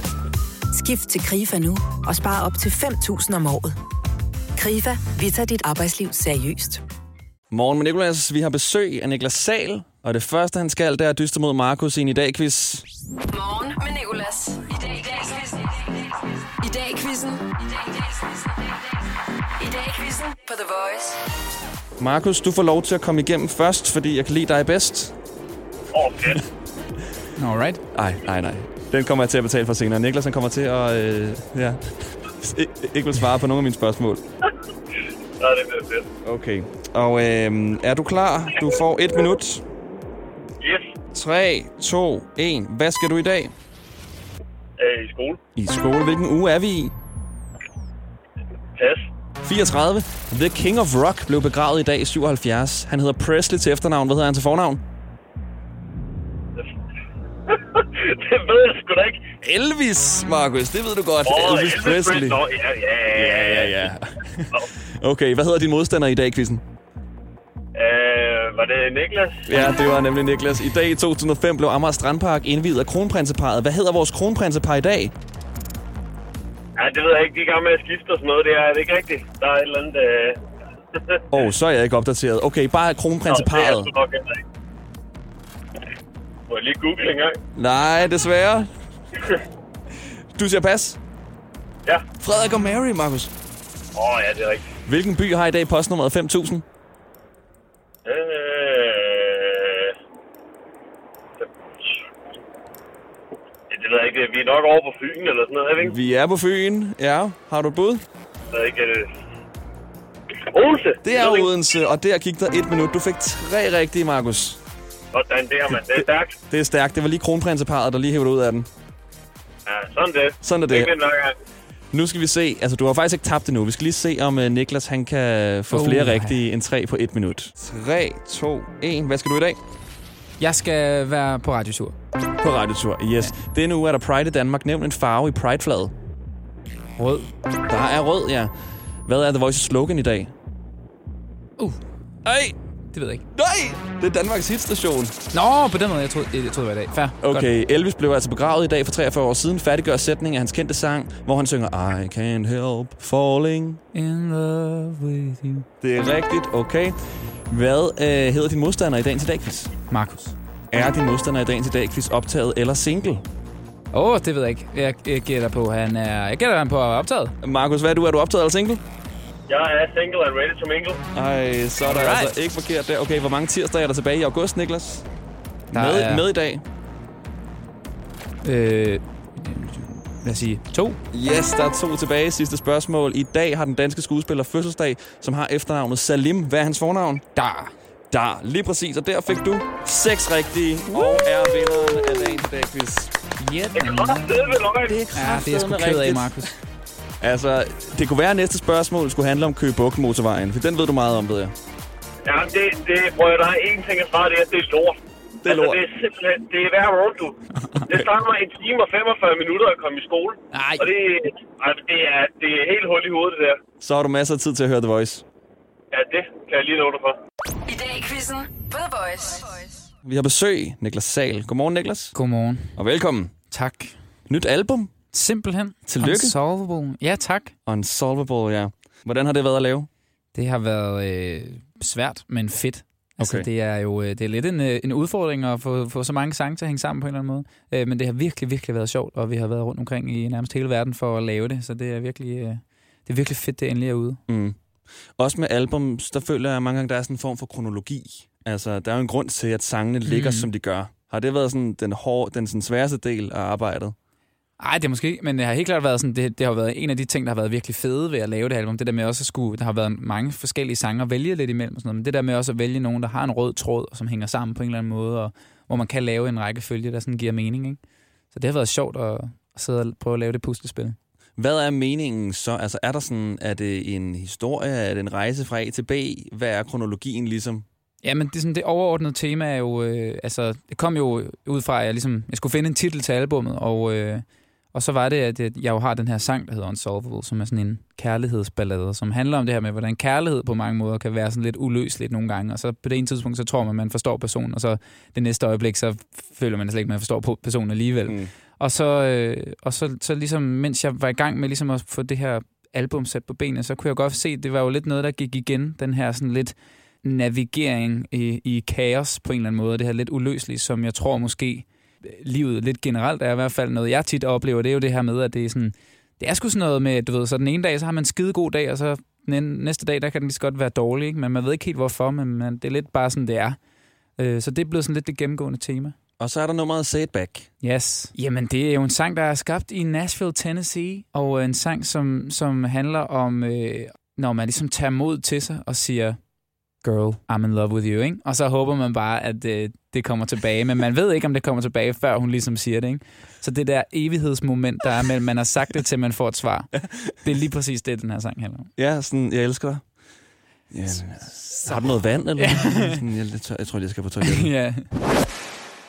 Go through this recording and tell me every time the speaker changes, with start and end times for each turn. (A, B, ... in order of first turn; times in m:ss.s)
0:00.7-0:03.8 A
0:04.6-0:06.8 A
0:07.5-0:12.8 B
0:13.3-0:18.9 C
0:19.6-0:21.2 C
0:22.0-0:25.1 B
0:25.9-0:26.4 D
0:27.4-0:27.8 E
0:27.9-0:34.2 B
0:35.4-0:36.1 D
0:36.2-0:39.6 B
0:40.6-0:41.0 D
0:41.1-0:43.5 B
0:44.8-0:45.4 D
0:45.6-0:46.9 B
0:48.8-0:49.1 D
0:49.4-0:54.8 B
0:57.5-0:59.3 D
0:59.4-1:02.4 B
1:01.2-1:03.9 D
1:03.1-1:06.6 B
1:07.8-1:09.7 D
1:09.5-1:15.1 B
1:16.8-1:20.4 D
1:21.3-1:23.9 B
1:23.3-1:24.4 D
1:26.5-1:27.4 D
1:27.6-1:28.7 B
1:30.4-1:31.0 B
1:32.2-1:33.3 B
1:34.0-1:34.7 D
1:34.9-1:36.6 B
1:38.0-1:40.0 D
1:41.4-1:42.0 D
1:43.7-1:46.0 D
1:45.8-1:48.0 B
1:48.5-1:49.1 D
1:50.5-1:51.5 D
1:51.0-1:54.6 B
1:55.1-1:56.4 D
1:55.7-1:58.7 B
1:59.7-2:01.4 D
2:00.4-2:00.9 B
2:01.9-2:09.6 B
2:05.7-2:06.4 E
2:10.4-2:12.0 E
2:12.4-2:15.9 B
2:17.0-2:17.3 E
2:17.7-2:18.5 B
2:19.1-2:20.3 B
2:22.2-2:22.6 B
2:22.9-2:23.2 E
2:23.3-2:25.2 B
2:25.3-2:27.5 E
2:27.2-2:33.8 B
2:33.9-2:35.7 E
2:35.8-2:37.0 B
2:37.5-2:39.7 B
2:39.9-2:40.4 E
2:40.7-2:43.2 B
2:43.9-2:47.4 E
2:47.4-2:48.8 B
2:49.5-2:51.0 D
2:51.1-2:55.0 B
2:51.9-2:52.3 E
2:55.7-2:56.2 E
2:55.7-2:56.6 B
2:58.4-3:01.0 E
3:01.1-3:07.2 B
3:07.4-3:07.7 E
3:08.1-3:13.1 B
3:13.4-3:16.5 E
3:13.8-3:15.0 D
3:14.9-3:16.4 B
3:17.2-3:21.6 B
3:22.3-3:27.4 D
3:25.4-3:25.8 B
3:27.9-3:33.6 D
3:30.5-3:30.9 E
3:33.8-3:35.2 B
3:35.9-3:37.2 D
3:37.7-3:39.8 C
3:40.0-3:42.2 B
3:42.1-3:42.8 E
3:42.8-3:43.3 B
3:43.5-3:44.0 E
3:44.3-3:44.9 B
3:45.1-3:47.6 E
3:45.9-3:46.3 B
3:47.7-3:49.9 B
3:50.3-4:04.2 E
3:53.2-3:53.5 B
4:04.3-4:04.6 B
4:05.2-4:14.0 B
4:10.0-4:10.5 E
4:14.6-4:27.8 E
4:28.3-4:31.0 E
4:31.4-4:37.6 B
4:38.0-5:23.6 E
5:24.2-5:26.0 E
5:26.2-5:27.5 B
5:27.6-5:36.2 E
5:36.8-5:46.7 E
5:47.2-5:48.7 E
5:48.8-5:49.8 B
5:50.7-5:54.5 B
5:51.6-5:53.0 E
5:54.2-5:54.8 E